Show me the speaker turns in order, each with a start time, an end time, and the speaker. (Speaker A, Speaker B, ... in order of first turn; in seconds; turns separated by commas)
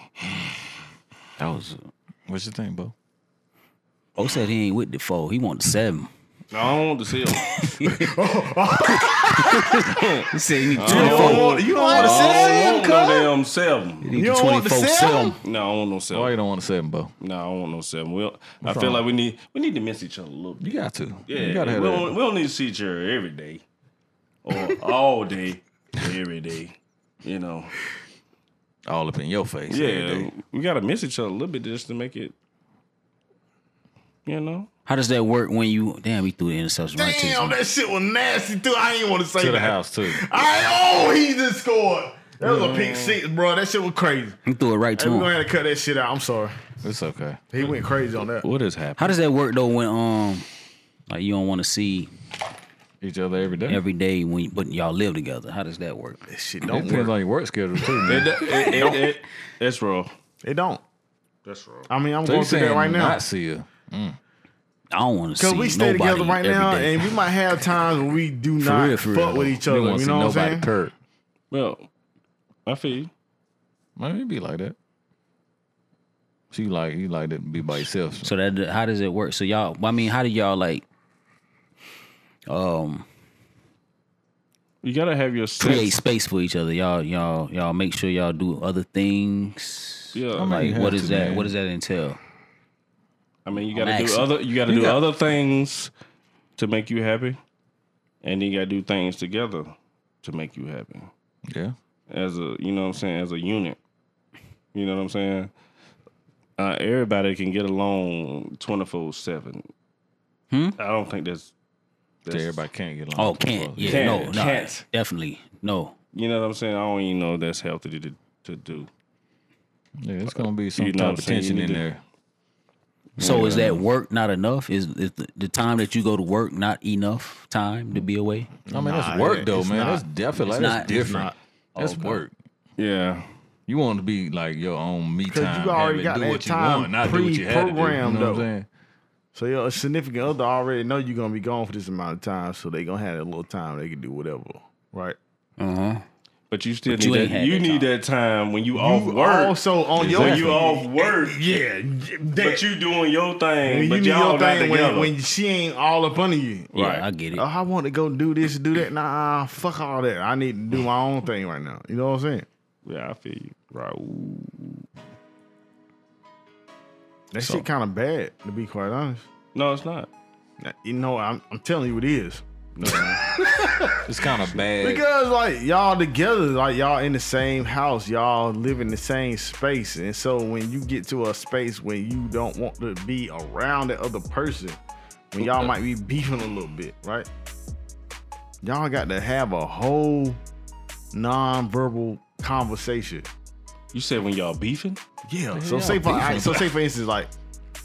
Speaker A: 1.4-1.9, Speaker B: 2.3-2.9, Speaker A: 4.2-6.1, Speaker C: 6.5-7.5, Speaker A: 7.5-8.1, Speaker D: 7.8-10.1, Speaker A: 9.0-12.3, Speaker C: 9.9-14.1, Speaker D: 10.8-13.2, Speaker B: 11.0-11.2, Speaker B: 11.9-13.1, Speaker A: 14.0-15.4, Speaker D: 14.1-15.4, Speaker C: 15.4-16.3, Speaker B: 16.1-17.1, Speaker C: 17.2-20.7, Speaker B: 18.6-19.0, Speaker B: 20.6-22.1, Speaker C: 21.3-23.6, Speaker C: 24.4-27.8, Speaker B: 28.9-30.3, Speaker C: 29.7-32.3, Speaker C: 34.2-34.7, Speaker A: 34.9-37.5, Speaker D: 37.0-44.4, Speaker B: 39.4-40.4, Speaker C: 42.4-43.2, Speaker A: 44.5-45.3, Speaker D: 45.0-46.6, Speaker B: 46.8-47.4, Speaker D: 47.5-48.5, Speaker C: 48.4-49.1, Speaker A: 49.0-50.5, Speaker A: 51.1-52.1, Speaker B: 53.0-53.8, Speaker A: 53.6-56.2, Speaker D: 56.3-57.1, Speaker B: 56.6-58.4, Speaker C: 58.1-60.1, Speaker A: 58.5-59.0, Speaker D: 60.4-60.8, Speaker C: 61.5-61.9, Speaker D: 61.9-63.2, Speaker B: 62.2-64.2, Speaker A: 64.9-67.2, Speaker D: 65.4-70.7, Speaker A: 68.6-69.5, Speaker B: 69.6-70.9, Speaker C: 71.5-71.9, Speaker C: 72.7-73.1, Speaker B: 74.0-74.8, Speaker B: 76.5-78.3, Speaker A: 78.2-80.8, Speaker A: 82.5-83.1, Speaker C: 84.8-86.0, Speaker A: 85.6-92.2, Speaker C: 90.1-90.7, Speaker B: 90.4-91.5, Speaker C: 93.5-95.9, Speaker A: 93.7-94.3, Speaker B: 94.7-95.0, Speaker C: 96.6-97.4, Speaker C: 98.2-101.1, Speaker B: 101.5-101.8, Speaker C: 102.1-103.8, Speaker C: 104.7-105.5, Speaker C: 106.6-109.7, Speaker A: 110.5-110.8, Speaker C: 110.8-111.5, Speaker C: 112.2-112.6, Speaker B: 112.3-114.4, Speaker A: 113.2-116.0, Speaker C: 113.8-114.8, Speaker C: 116.1-118.9, Speaker B: 120.0-122.0, Speaker C: 120.3-121.8, Speaker A: 123.2-128.5, Speaker B: 123.2-123.8, Speaker B: 128.7-132.3, Speaker D: 128.7-131.3, Speaker A: 130.5-131.2, Speaker A: 131.8-132.2, Speaker C: 132.8-133.3, Speaker B: 133.7-138.7, Speaker D: 135.3-138.5, Speaker D: 139.3-145.2, Speaker A: 145.6-146.0, Speaker C: 146.5-151.5, Speaker A: 146.9-147.9, Speaker D: 148.8-152.6, Speaker B: 150.0-150.5, Speaker C: 152.4-155.1, Speaker D: 153.7-156.7, Speaker C: 156.7-157.1, Speaker A: 156.7-157.4, Speaker D: 157.3-162.5, Speaker C: 162.8-164.8, Speaker D: 167.3-169.2, Speaker B: 167.4-167.6, Speaker C: 169.6-170.1, Speaker D: 170.6-174.1, Speaker C: 172.8-173.2, Speaker B: 174.0-175.0, Speaker D: 174.8-184.8, Speaker D: 185.3-187.3, Speaker C: 185.4-185.7, Speaker D: 188.6-190.4, Speaker D: 191.1-193.3, Speaker C: 193.9-195.0, Speaker D: 195.3-197.3, Speaker B: 195.5-196.7